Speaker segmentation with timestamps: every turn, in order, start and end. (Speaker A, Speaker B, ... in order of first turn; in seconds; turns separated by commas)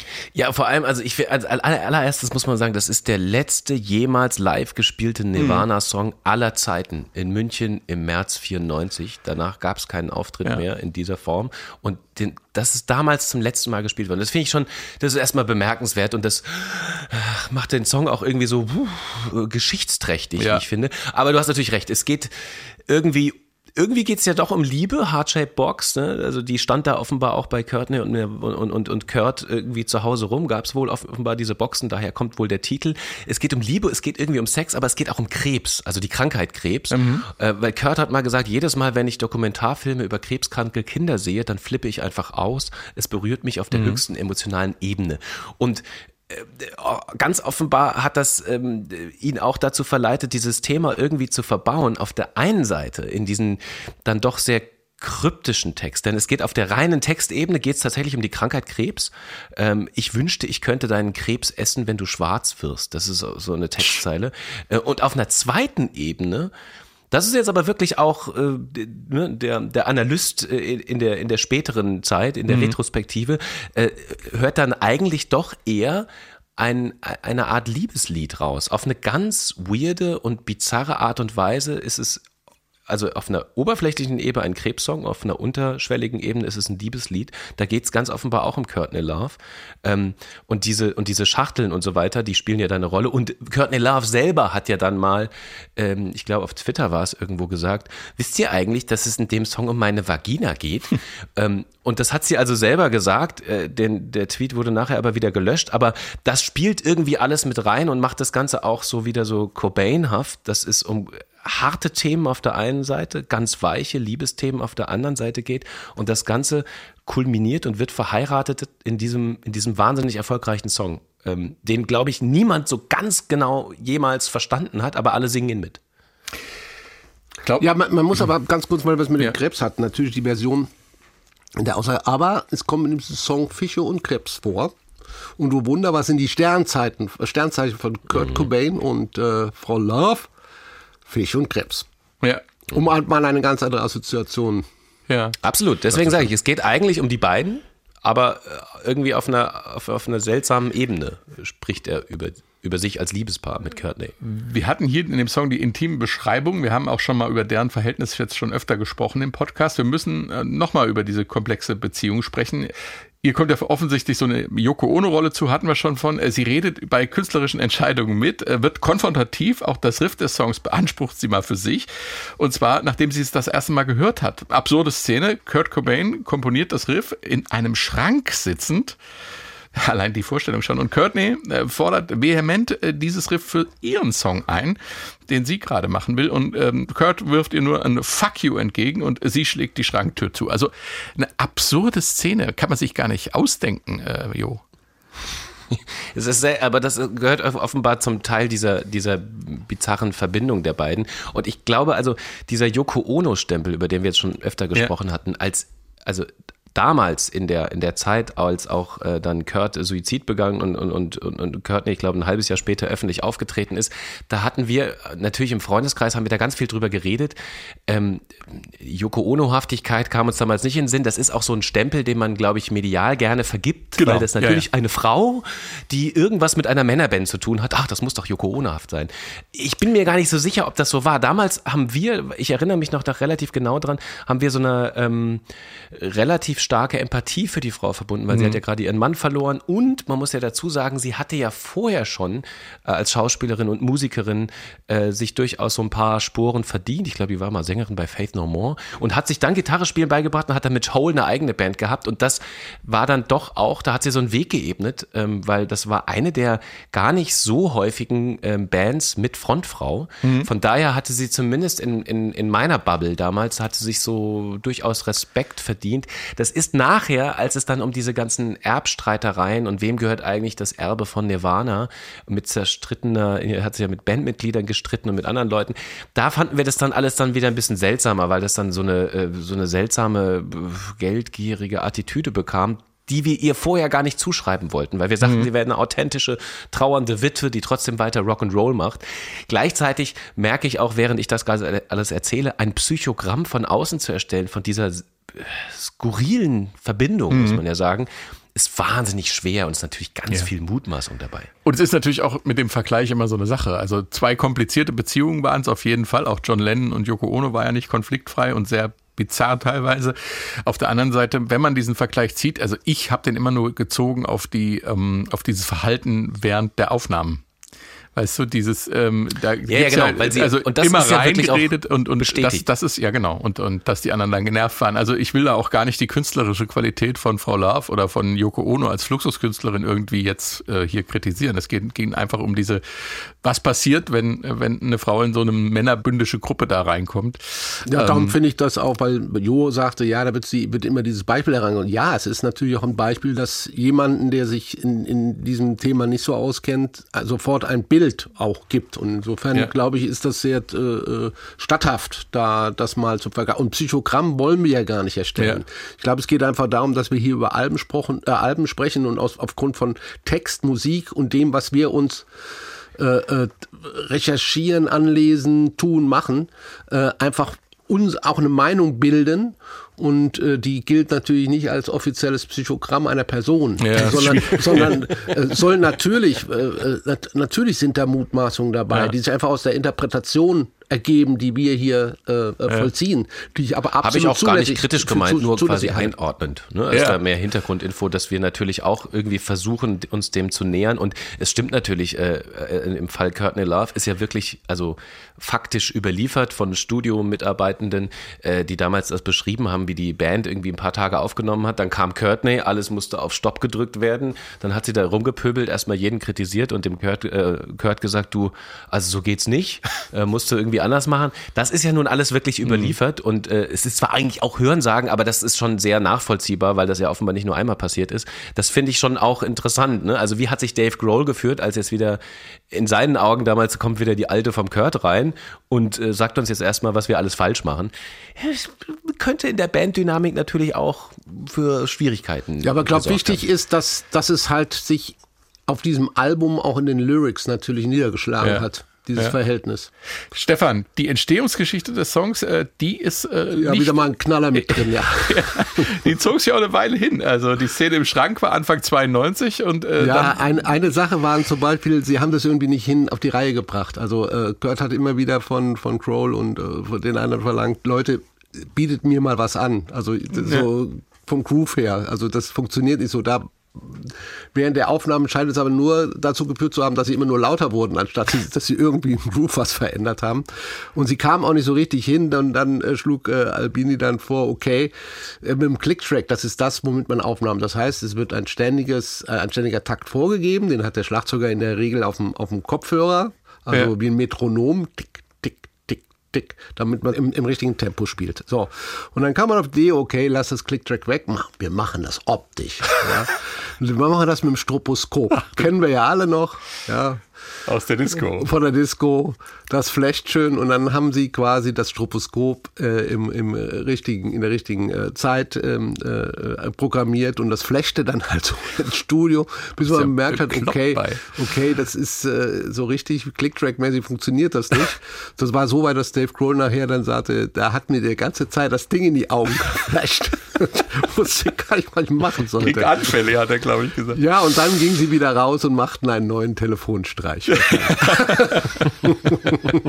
Speaker A: 0.3-66.5, Speaker B: 5.4-5.7, Speaker B: 20.4-20.6, Speaker B: 36.9-37.3, Speaker B: 43.7-44.0, Speaker A: 67.1-82.2, Speaker B: 72.5-72.8, Speaker A: 82.9-125.8, Speaker C: 127.6-130.7, Speaker C: 131.6-134.7, Speaker C: 135.4-140.3, Speaker C: 141.1-141.9, Speaker C: 142.7-144.7, Speaker B: 145.1-145.4, Speaker A: 145.4-154.2, Speaker B: 154.2-162.7, Speaker B: 163.2-179.0, Speaker B: 179.8-194.6, Speaker A: 195.7-217.4, Speaker A: 217.9-301.5, Speaker B: 224.0-224.7, Speaker B: 238.3-238.6, Speaker B: 260.2-260.5, Speaker B: 297.3-297.6, Speaker B: 301.6-317.4, Speaker B: 318.1-338.4, Speaker A: 319.7-322.7, Speaker C: 337.9-362.3, Speaker C: 363.0-386.1, Speaker B: 373.8-375.1, Speaker A: 384.0-422.2, Speaker B: 386.9-387.2, Speaker B: 412.6-412.9, Speaker A: 422.7-433.4, Speaker C: 432.6-439.9, Speaker B: 440.3-450.6, Speaker C: 443.5-446.0, Speaker C: 450.0-497.2, Speaker B: 497.7-498.5, Speaker C: 498.2-523.0, Speaker B: 509.9-511.4, Speaker B: 522.6-524.2, Speaker C: 524.1-529.8, Speaker B: 527.6-528.7